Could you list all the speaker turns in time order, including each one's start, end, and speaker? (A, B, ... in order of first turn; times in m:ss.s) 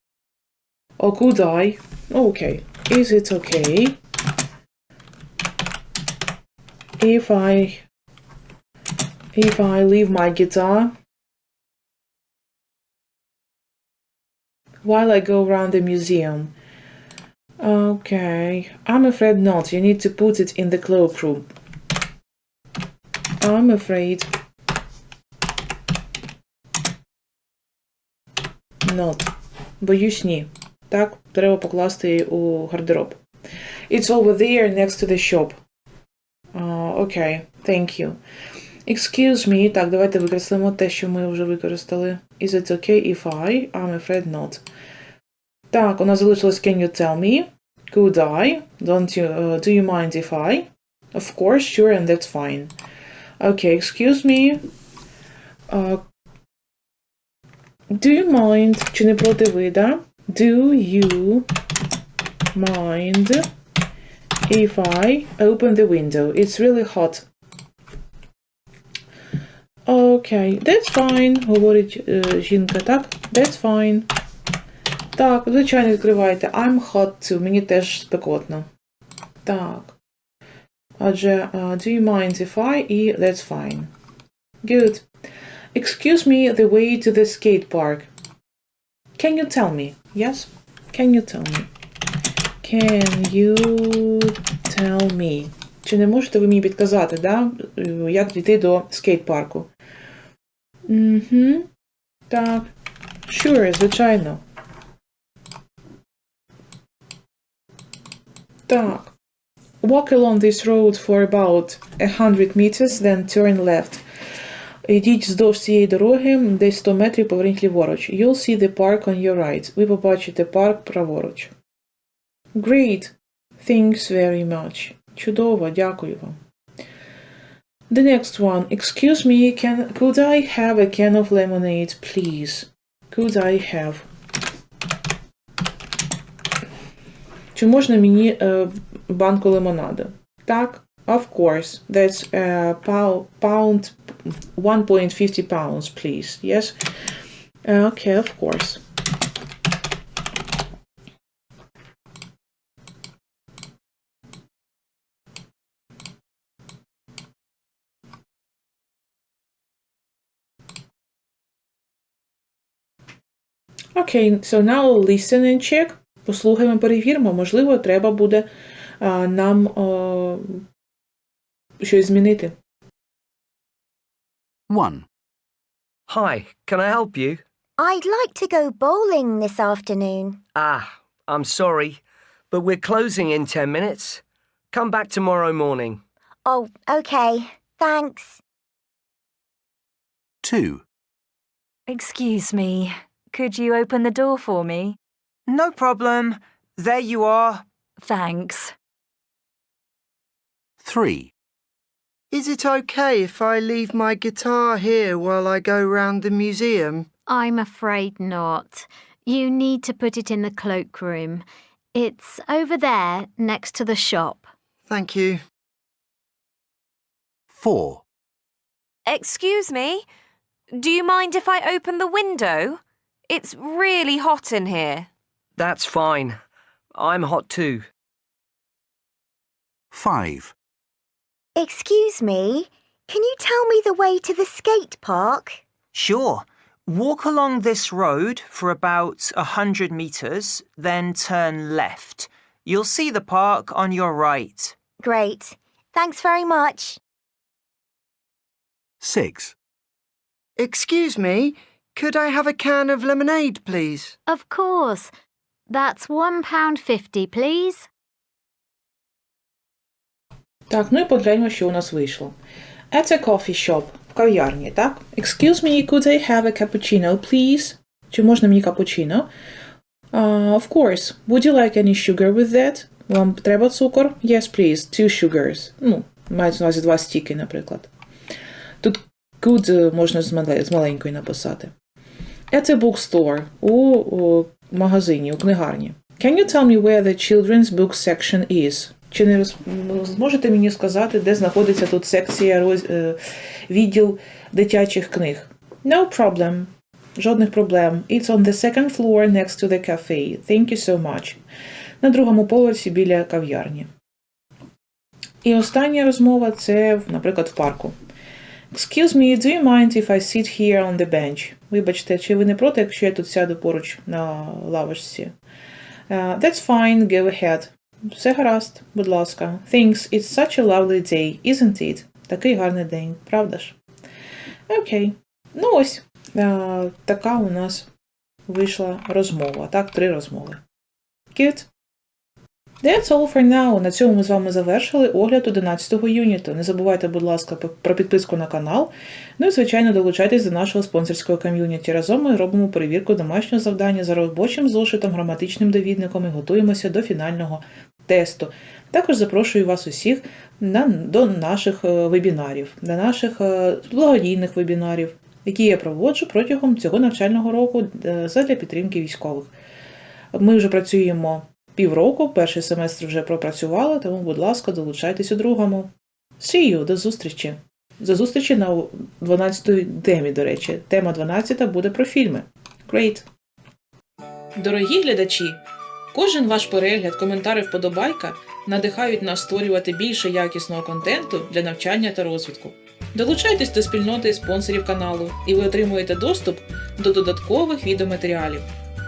0:01.0-0:04.0 A
0:07.0-0:07.8 A
0:09.3-0:10.9 A
0:14.8-0:16.5 A
0:17.6-0:21.5 A
0:23.4-0:24.3 A
0:28.8-0:33.2 A
0:33.9-0:35.6 A
0:36.5-0:38.2 A
0:38.8-0:44.6 A
0:45.7-0:52.7 A
0:53.4-0:54.6 A
0:55.7-0:56.0 A
0:57.9-1:01.5 A
1:02.5-1:03.5 A
1:04.5-1:07.3 A
1:09.9-1:14.1 A
1:15.1-1:18.7 A
1:19.4-1:20.0 A
1:21.0-1:23.9 A
1:24.6-1:25.0 A
1:25.7-1:28.1 A
1:29.2-1:31.7 A
1:32.6-1:39.7 A
1:40.9-1:41.7 A
1:42.3-1:42.7 A
1:43.3-1:44.4 A
1:48.7-1:49.1 A
1:49.8-1:54.0 A
1:54.9-2:01.5 A
2:02.6-2:06.4 A
2:07.9-2:14.1 A
2:17.5-2:24.0 A
2:24.6-2:26.8 A
2:27.6-2:28.8 A
2:43.9-2:48.5 A
2:49.0-2:50.6 A
2:51.8-2:52.5 A
2:54.7-2:55.0 B
2:56.1-2:57.4 C
2:57.8-3:00.4 D
3:00.5-3:06.0 C
3:06.4-3:08.4 D
3:10.4-3:10.8 B
3:11.9-3:15.0 E
3:15.5-3:17.6 F
3:18.0-3:18.7 E
3:20.8-3:21.3 B
3:22.3-3:27.1 G
3:27.3-3:31.4 H
3:31.9-3:34.4 H
3:34.9-3:35.4 G
3:37.6-3:38.0 B
3:39.0-3:40.0 I
3:40.7-3:45.1 I
3:45.6-3:46.4 C
3:46.9-3:47.9 C
3:49.9-3:50.5 B
3:51.6-3:55.6 D
3:55.9-4:04.8 F
4:05.0-4:07.0 D
4:09.0-4:09.5 B
4:10.6-4:14.1 G
4:14.3-4:15.1 H
4:15.7-4:17.9 H
4:20.7-4:22.3 A
4:22.9-4:29.3 A
4:30.1-4:37.9 A
4:38.8-4:41.7 A
4:42.5-5:01.4 A
5:02.0-5:03.9 A
5:05.4-5:07.9 A
5:08.7-5:15.3 A
5:16.1-5:23.8 A
5:24.7-5:27.9 A
5:28.5-5:30.6 A
5:31.3-5:31.7 A
5:32.8-5:59.5 A
6:00.3-6:13.3 A
6:14.6-6:28.7 A